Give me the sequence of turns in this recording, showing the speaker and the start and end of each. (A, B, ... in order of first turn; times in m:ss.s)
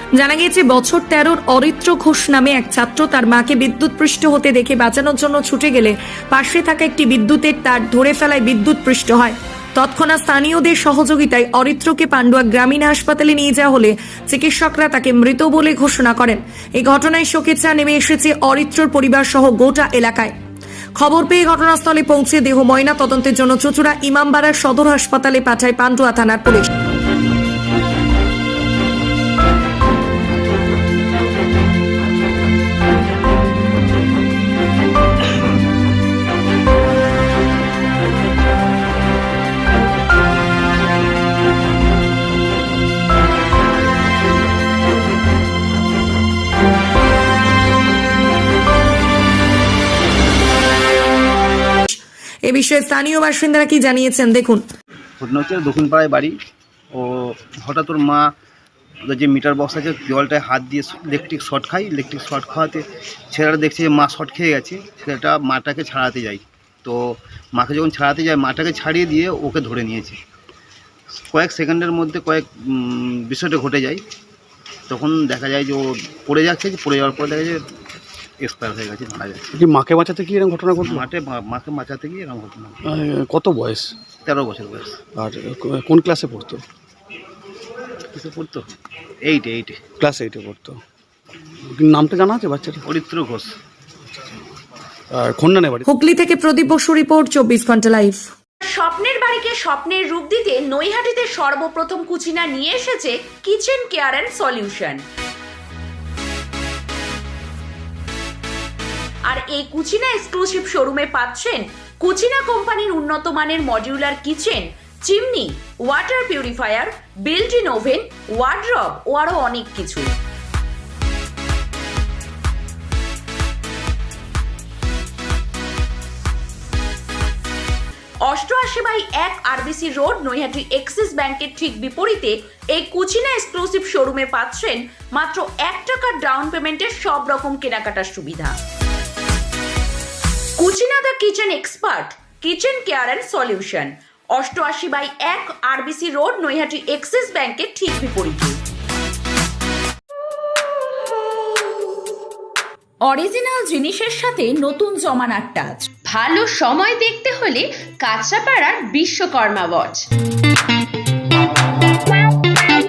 0:00.2-0:20.3 A
0:21.0-0:26.7 A
0:51.9-0:54.6 A
0:55.2-0:56.3 B
0:56.9-0:58.3 B
0:59.1-1:10.2 B
1:11.3-1:14.0 B
1:14.9-1:17.6 B
1:18.4-1:19.5 B
1:19.5-1:21.0 C
1:20.8-1:22.8 B
1:22.8-1:23.9 C
1:24.2-1:25.0 B
1:25.2-1:26.6 C
1:28.1-1:28.7 B
1:29.2-1:29.8 B
1:30.0-1:30.8 C
1:31.7-1:32.8 C
1:32.8-1:33.5 B
1:35.1-1:35.8 C
1:35.9-1:38.3 A
1:38.6-1:45.0 D
1:49.3-2:00.1 D
2:08.3-2:18.6 D
2:20.6-2:28.6 D
2:33.1-2:35.8 D
2:36.1-2:40.0 E